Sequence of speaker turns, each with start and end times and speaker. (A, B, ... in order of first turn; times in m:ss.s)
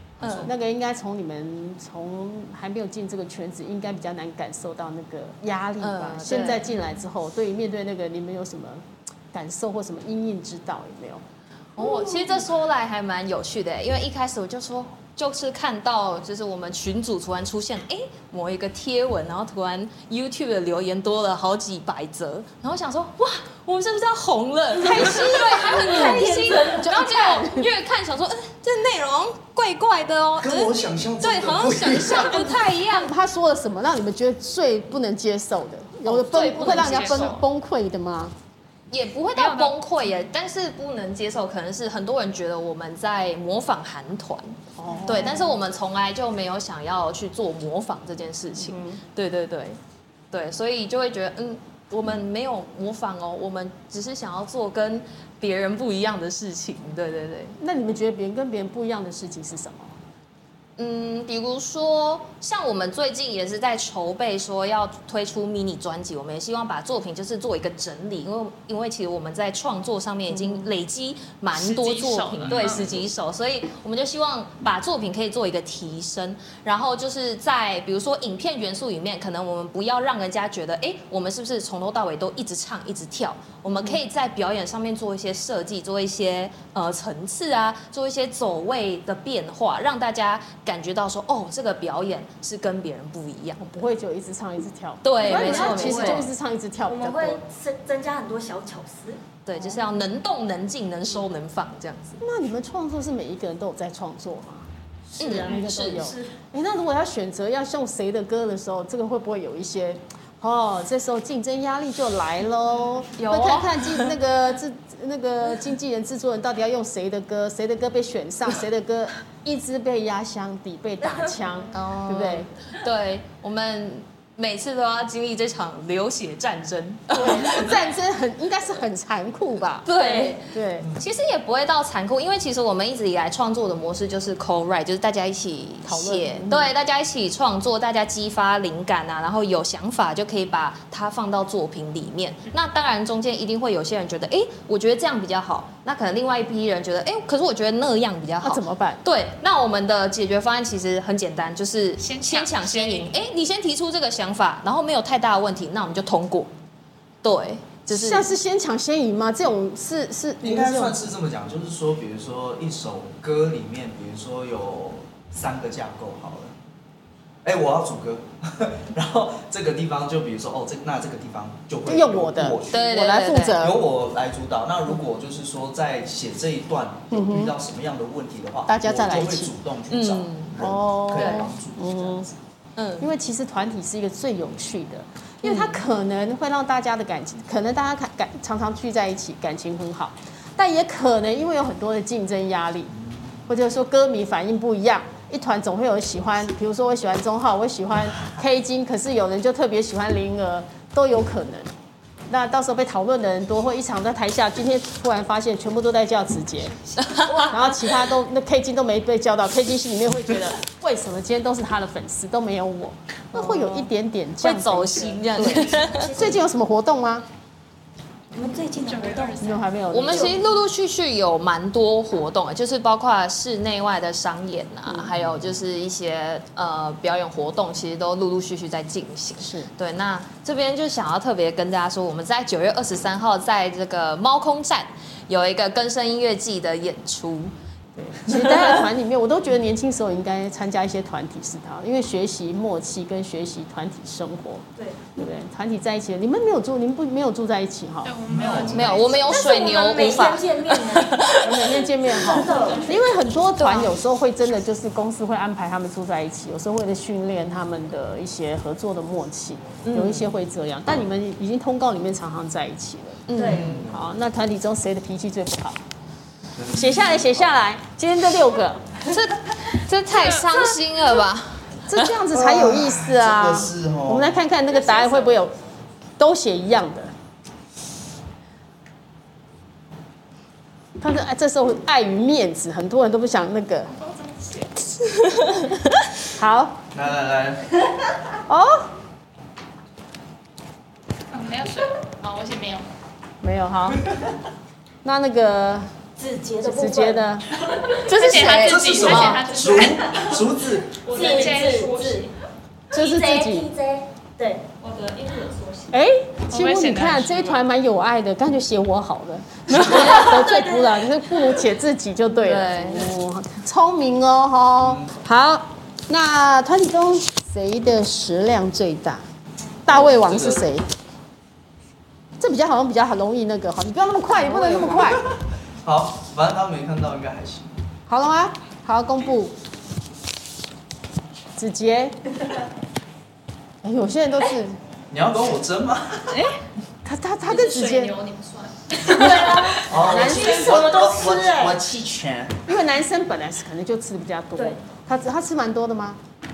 0:00.2-0:00.5 A
0:00.2-0:00.5 B
0:00.4-0:11.2 C
0:05.8-0:06.7 B
0:11.8-0:33.1 B
0:11.8-0:12.4 C
0:24.8-0:27.6 C
0:25.7-0:27.1 D
0:30.4-0:32.6 A
0:32.9-0:38.3 C
0:36.0-0:37.4 B
0:38.9-0:49.8 B
0:39.4-0:39.7 E
0:44.8-0:45.5 C
0:48.6-0:49.0 C
0:50.3-0:57.6 B
0:57.6-0:59.9 C
1:00.8-1:33.8 B
1:10.3-1:10.6 C
1:11.5-1:12.9 E
1:12.4-1:13.1 A
1:23.7-1:24.0 C
1:33.6-1:37.4 C
1:35.0-1:36.3 B
1:35.2-1:36.3 D
1:36.9-1:39.2 D
1:39.4-1:42.2 B
1:39.6-1:39.8 C
1:42.2-2:02.5 C
1:45.2-1:46.1 B
1:45.2-1:46.3 D
1:53.2-1:54.1 B
2:01.0-2:01.4 D
2:01.7-2:07.8 B
2:07.1-2:10.9 C
2:09.8-2:36.5 B
2:09.9-2:10.4 D
2:15.8-2:16.7 C
2:28.4-2:29.0 C
2:32.0-2:33.1 E
2:37.2-2:38.3 B
2:37.9-2:41.0 C
2:40.4-2:46.5 A
2:47.4-2:52.8 A
2:51.8-2:53.8 C
2:52.7-2:53.6 B
2:53.6-3:02.4 A
2:57.1-2:57.5 C
2:58.7-2:59.5 C
2:59.9-3:01.5 B
3:00.6-3:02.3 C
3:02.8-3:03.1 B
3:03.0-3:12.9 C
3:05.4-3:05.8 B
3:13.5-3:21.7 C
3:22.3-3:26.8 C
3:27.0-3:27.5 B
3:27.2-3:27.7 D
3:27.4-3:37.2 C
3:33.3-3:33.9 B
3:34.4-3:36.2 B
3:35.0-3:36.4 D
3:38.3-3:39.5 D
3:38.8-3:39.7 E
3:39.4-3:40.4 C
3:39.9-3:57.5 B
3:40.0-3:40.4 D
3:45.2-3:45.5 A
3:49.4-3:49.7 C
3:58.0-4:04.6 C
4:05.1-4:08.2 C
4:08.0-4:09.5 E
4:08.2-4:09.4 A
4:08.6-4:11.8 B
4:09.3-4:11.4 D
4:11.4-4:23.3 C
4:12.1-4:13.0 D
4:13.5-4:14.0 B
4:19.8-4:20.2 B
4:23.3-4:23.8 B
4:23.3-4:23.7 D
4:23.4-4:24.0 A
4:23.9-4:25.8 C
4:26.5-4:27.5 A
4:26.7-4:28.9 C
4:29.0-4:32.1 B
4:30.2-4:30.6 E
4:31.8-4:35.5 C
4:32.3-4:34.4 A
4:34.9-4:35.2 D
4:36.2-4:37.1 C
4:41.0-4:43.9 C
4:44.2-4:44.7 E
4:45.1-4:45.9 B
4:46.4-4:46.8 C
4:46.9-4:47.8 A
4:48.5-4:48.9 C
4:51.3-4:52.9 E
4:53.4-4:54.0 C
4:55.0-4:55.9 C
4:56.2-4:57.3 D
4:56.6-4:57.5 C
4:58.0-4:59.4 B
4:58.0-5:00.4 E
4:58.5-5:02.3 F
4:58.6-5:01.0 A
5:01.1-5:02.3 D
5:01.1-5:01.9 E
5:02.9-5:03.7 C
5:02.9-5:04.7 D
5:04.8-5:05.9 F
5:05.9-5:19.2 C
5:06.5-5:07.6 E
5:09.8-5:11.1 D
5:09.9-5:10.3 B
5:12.3-5:13.1 B
5:14.8-5:15.1 A
5:19.8-5:20.9 C
5:19.9-5:20.6 A
5:22.4-5:25.2 C
5:24.4-5:25.0 B
5:25.0-5:27.8 A
5:28.1-5:29.5 C
5:31.6-5:32.3 C
5:33.8-5:34.8 C
5:35.1-5:36.5 A
5:37.0-5:38.1 C
5:37.5-5:39.6 E
5:39.0-5:41.8 D
5:39.2-5:40.8 C
5:39.8-5:42.6 A
5:42.6-5:46.2 C
5:44.6-5:44.8 D